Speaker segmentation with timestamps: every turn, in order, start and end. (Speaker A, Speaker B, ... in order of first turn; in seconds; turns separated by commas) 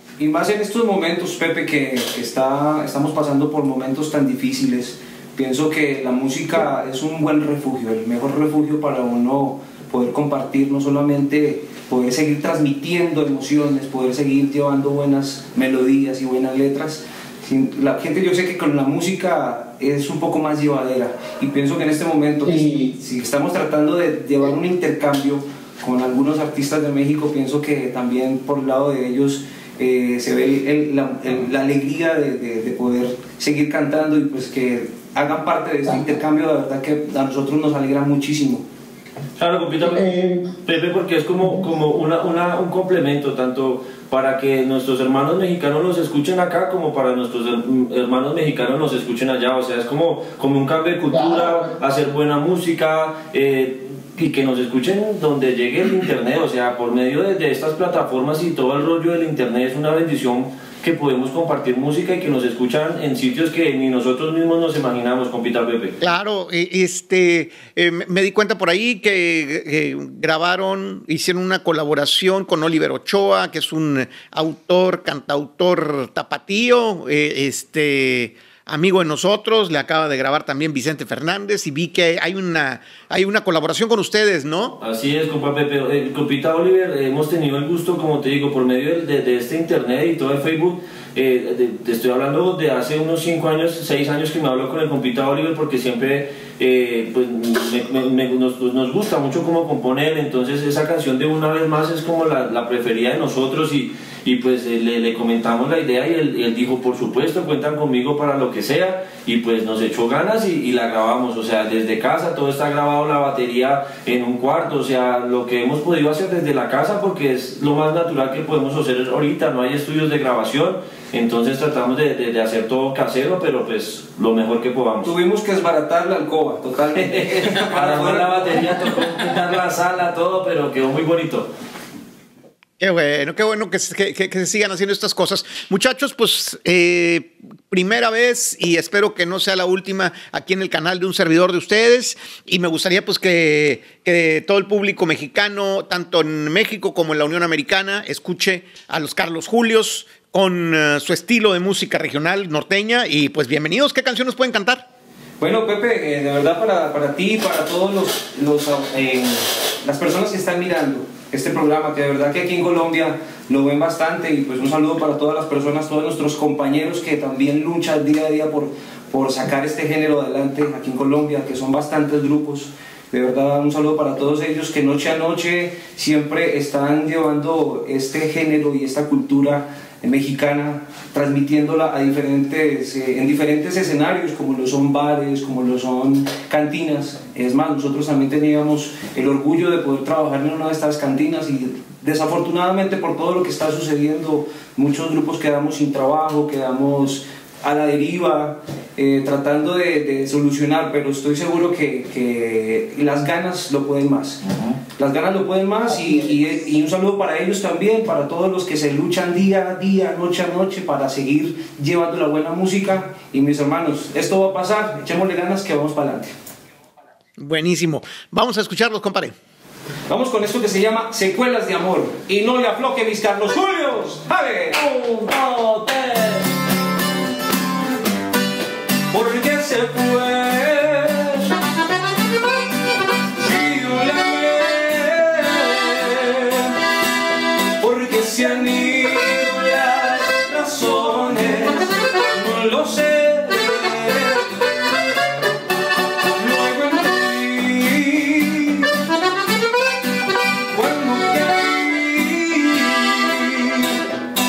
Speaker A: 0.2-38.6, Speaker B: 39.4-66.0, Speaker C: 66.0-84.8, Speaker B: 84.8-125.1, Speaker A: 125.0-128.7, Speaker B: 126.9-131.5, Speaker C: 132.8-154.9, Speaker A: 155.4-204.4, Speaker B: 204.4-204.8, Speaker A: 204.9-216.3, Speaker C: 217.4-219.3, Speaker A: 220.1-225.2, Speaker B: 225.2-226.2, Speaker A: 229.1-231.5, Speaker A: 233.3-236.7, Speaker A: 237.8-244.4, Speaker A: 246.3-248.9, Speaker A: 250.7-254.0